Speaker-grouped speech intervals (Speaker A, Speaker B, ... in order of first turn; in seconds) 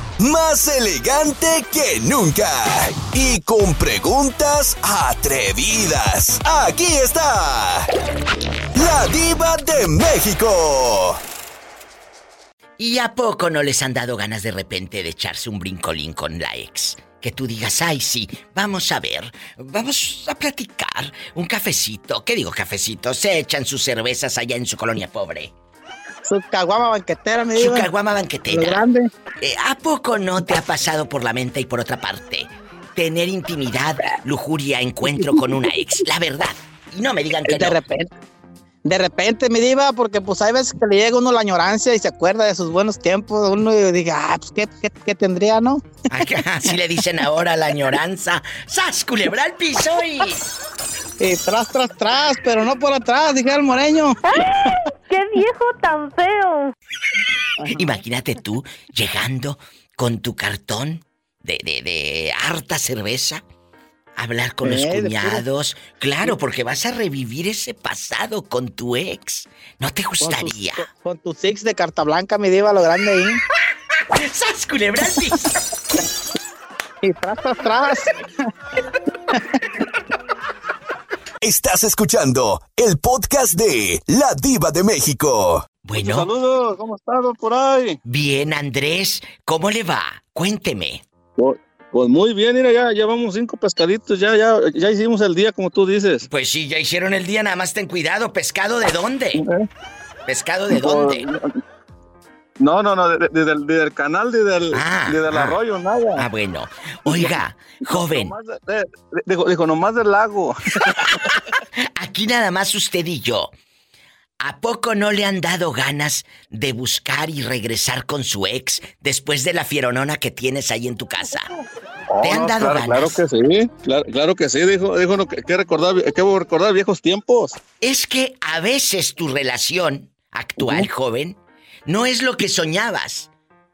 Speaker A: 0.2-7.9, 8.7-11.2, 81.4-85.7
Speaker B: 12.8-25.5, 27.6-28.8, 29.4-37.8, 46.1-50.4, 57.7-63.4, 64.2-70.9, 74.2-75.5, 85.8-86.3, 88.0-91.0, 96.3-99.4, 100.3-101.3, 104.7-105.6, 106.2-108.3, 112.0-113.5, 114.4-121.5, 122.2-123.2, 127.8-133.3
Speaker C: 26.2-27.9, 28.5-29.1, 35.2-35.5, 37.5-38.1, 38.9-45.9, 51.2-54.2, 64.6-65.4, 70.2-73.4, 77.0-78.2
Speaker D: 54.3-56.7
Speaker E: 85.9-88.0, 91.4-96.3, 99.4-99.7, 100.7-101.4, 102.6-106.3, 107.1-111.3, 122.1-127.6, 130.6-130.9